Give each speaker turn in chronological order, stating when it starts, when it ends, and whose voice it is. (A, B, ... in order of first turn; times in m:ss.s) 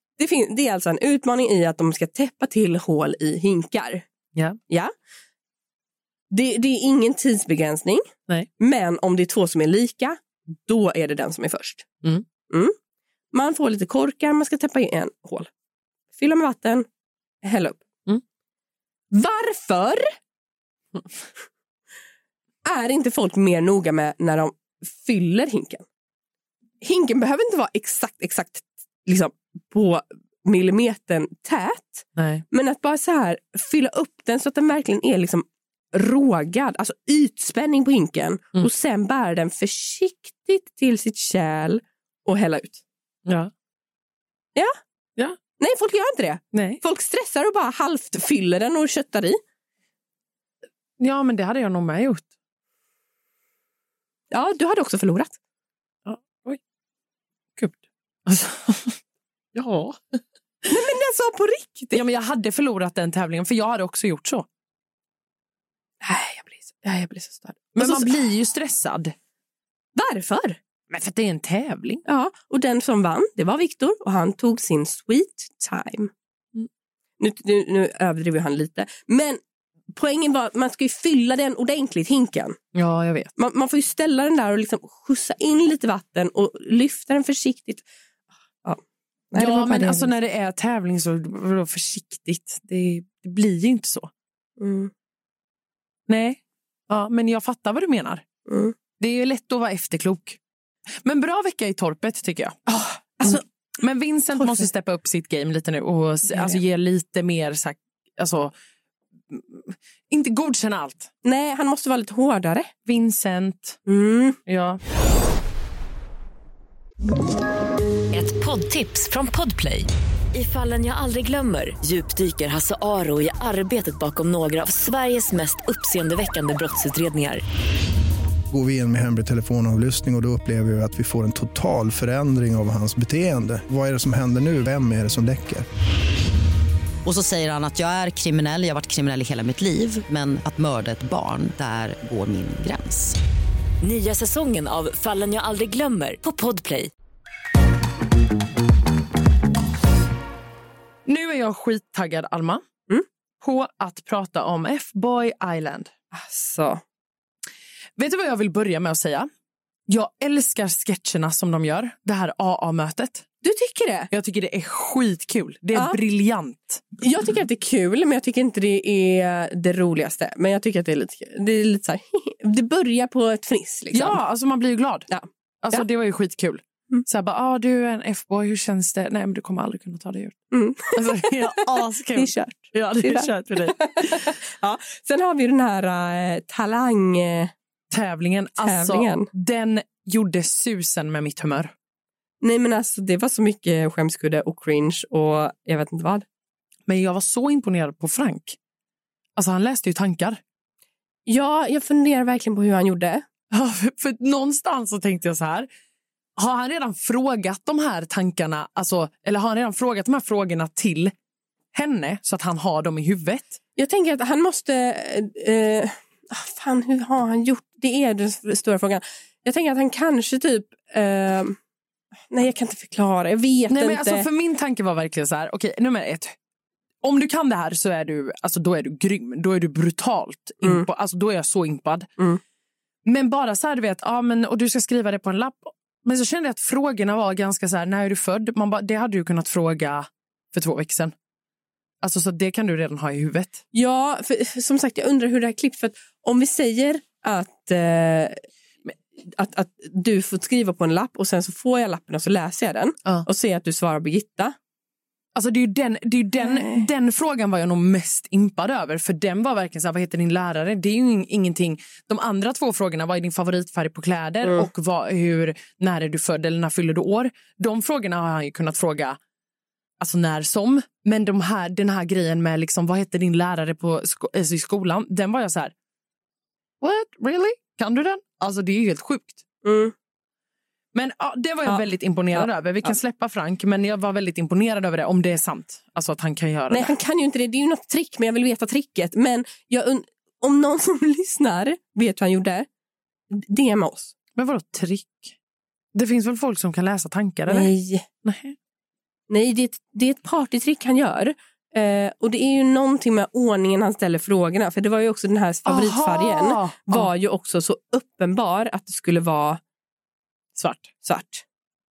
0:00.2-0:04.0 A
0:06.3-0:11.9 A
0:12.5-0:12.8 A
0:13.3-0:15.5 A
0:16.1-0:16.9 A
0:17.4-0:17.8 A
0:19.1-0:20.1 A
0:22.7-0:25.9 A
0:26.8-0:42.8 A
0:32.2-0:32.4 B
0:43.3-0:43.5 B
0:45.6-0:49.4 A
0:46.5-0:46.8 B
0:51.0-0:52.3 B
0:54.3-0:55.4 A
0:56.1-0:56.6 B
0:57.6-0:59.0 B
0:59.5-1:00.2 B
1:00.7-1:02.0 A
1:01.9-1:04.5 B
1:06.0-1:08.2 A
1:07.8-1:09.2 B
1:10.0-1:10.6 A
1:10.9-1:12.0 B
1:12.1-1:16.1 A
1:17.2-1:19.4 A
1:19.9-1:22.6 A
1:22.7-1:23.3 B
1:23.4-1:27.8 A
1:29.3-1:30.1 A
1:29.4-1:34.1 B
1:34.6-1:34.9 A
1:36.1-1:38.2 B
1:38.5-1:38.8 A
1:39.0-1:40.4 B
1:41.0-1:42.6 B
1:42.7-1:43.4 A
1:43.2-1:48.5 B
1:44.4-1:44.7 A
1:46.3-1:46.6 A
1:49.3-1:51.1 B
1:51.2-1:52.7 A
1:52.9-1:53.8 B
1:53.9-1:54.4 A
1:54.5-1:54.8 B
1:58.1-2:07.4 C
2:08.5-2:15.6 D
2:17.0-2:23.2 E
2:23.8-2:26.9 C
2:31.1-2:32.6 B
2:33.4-2:35.9 B
2:36.1-2:36.8 A
2:38.0-2:39.3 B
2:39.9-2:43.3 B
2:43.4-2:44.1 A
2:44.1-2:46.8 B
2:47.0-2:54.2 A
2:53.9-2:55.1 B
2:55.1-2:55.8 A
2:55.6-3:00.4 B
3:00.5-3:07.5 A
3:00.9-3:04.3 B
3:07.9-3:11.7 B
3:08.6-3:09.3 A
3:12.4-3:16.2 A
3:16.9-3:18.6 B
3:19.4-3:20.4 B
3:21.3-3:23.2 A
3:23.5-3:25.7 B
3:26.4-3:31.1 B
3:31.7-3:33.6 B
3:33.8-3:41.6 A
3:42.3-3:44.3 A
3:43.7-3:46.4 B
3:47.0-3:52.1 B
3:53.0-4:01.1 B
4:02.0-4:03.6 B
4:03.7-4:08.4 A
4:09.2-4:14.6 A
4:15.3-4:29.2 B
4:16.4-4:16.9 A
4:30.0-4:35.7 B
4:36.8-4:39.4 B
4:39.6-4:39.9 A
4:40.9-4:47.0 B
4:41.6-4:43.0 A
4:46.7-4:52.7 A
4:53.3-4:54.1 A
4:54.4-4:55.4 B
4:55.9-4:57.7 B
4:57.5-4:58.1 A
4:58.2-4:58.6 B
4:59.3-5:09.6 A
5:05.6-5:07.1 B
5:10.6-5:10.9 B
5:11.0-5:11.4 A